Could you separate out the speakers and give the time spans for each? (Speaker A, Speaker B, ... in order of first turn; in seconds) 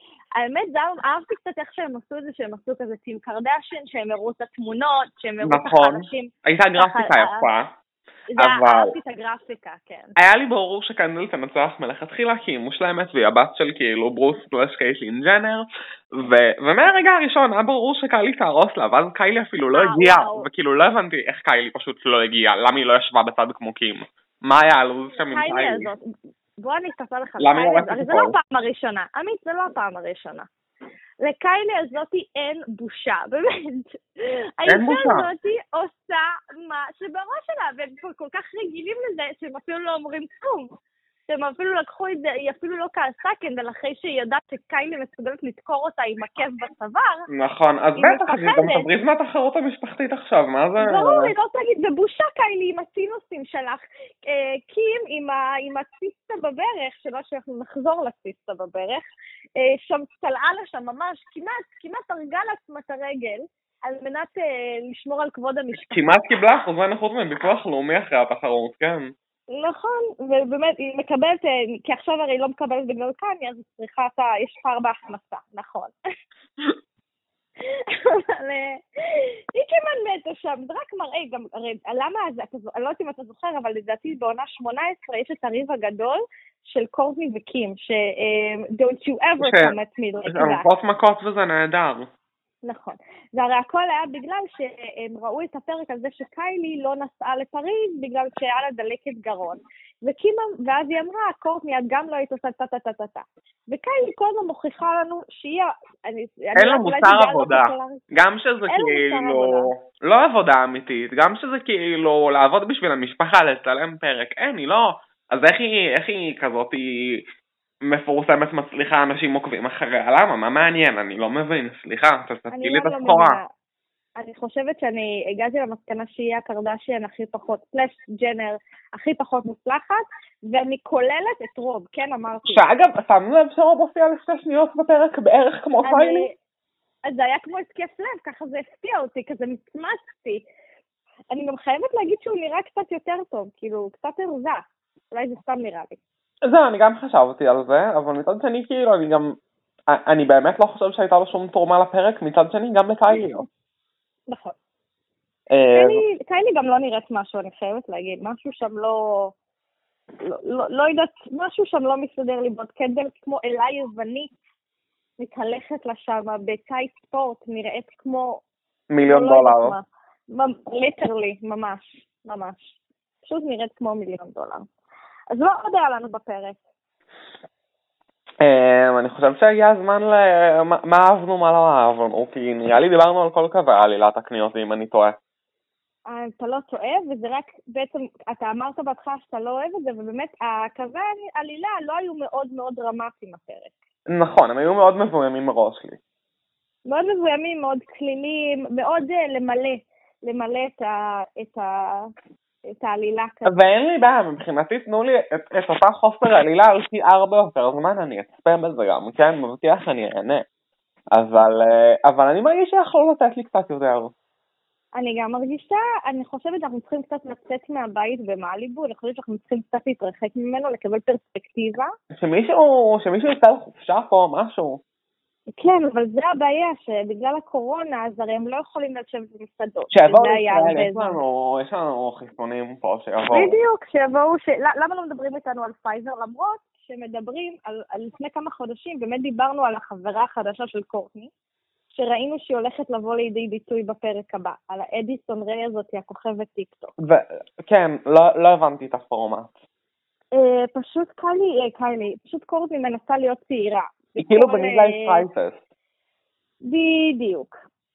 Speaker A: 0.4-7.5, 8.3-10.1, 19.7-20.5, 25.3-26.1, 26.6-30.5, 31.2-34.0, 34.6-40.7, 41.3-47.2, 48.0-48.9, 50.8-59.1, 59.6-66.1, 69.5-75.9, 77.7-90.7, 92.6-108.0, 108.7-109.7, 122.5-123.5, 124.2-132.6, 135.8-136.3, 137.1-140.4, 141.3-146.0, 154.3-154.6, 155.7-159.3, 160.2-164.3, 165.2-168.4, 169.0-174.6, 175.3-176.6, 186.1-193.7, 196.9-202.1, 202.7-203.6, 215.0-221.9, 225.6-231.2, 233.3-241.3, 241.9-246.9, 250.3-255.2, 256.6-257.5
Speaker B: 5.4-7.7, 8.4-8.9, 10.2-25.9, 27.4-28.4, 34.7-35.3, 47.3-51.3, 65.7-69.1, 89.4-89.8, 90.3-92.1, 106.5-117.2, 117.8-123.4, 132.5-136.3, 146.5-149.3, 149.9-153.4, 155.5-156.0, 168.9-169.8, 178.4-185.2, 194.1-196.0, 203.4-210.4, 211.1-214.1, 222.1-224.8, 229.9-233.6, 247.0-249.5, 254.2-255.6